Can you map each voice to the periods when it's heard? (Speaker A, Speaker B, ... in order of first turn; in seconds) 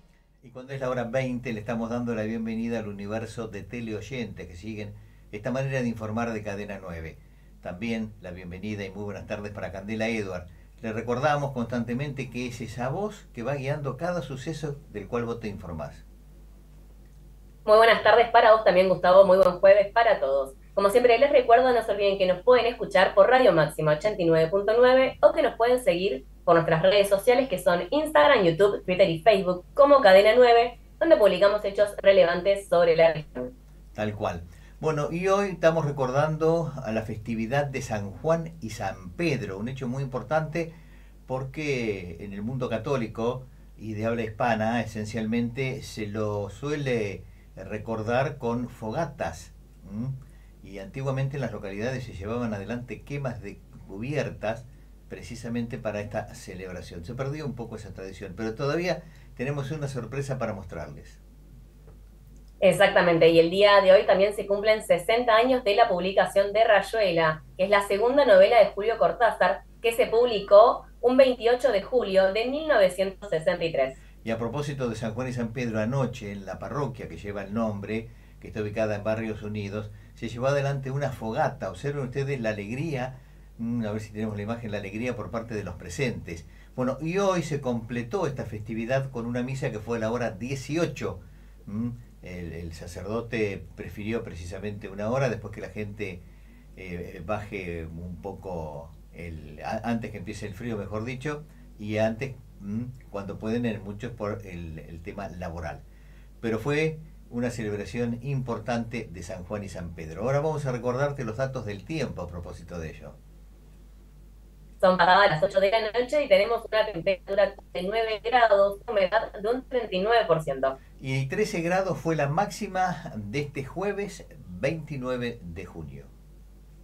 Speaker A: 0.4-16.0, 34.0-40.7, 41.3-61.2, 74.2-96.2, 96.8-105.8, 106.4-113.2, 121.0-126.1
Speaker B: 17.6-33.5, 62.6-74.0, 114.8-120.8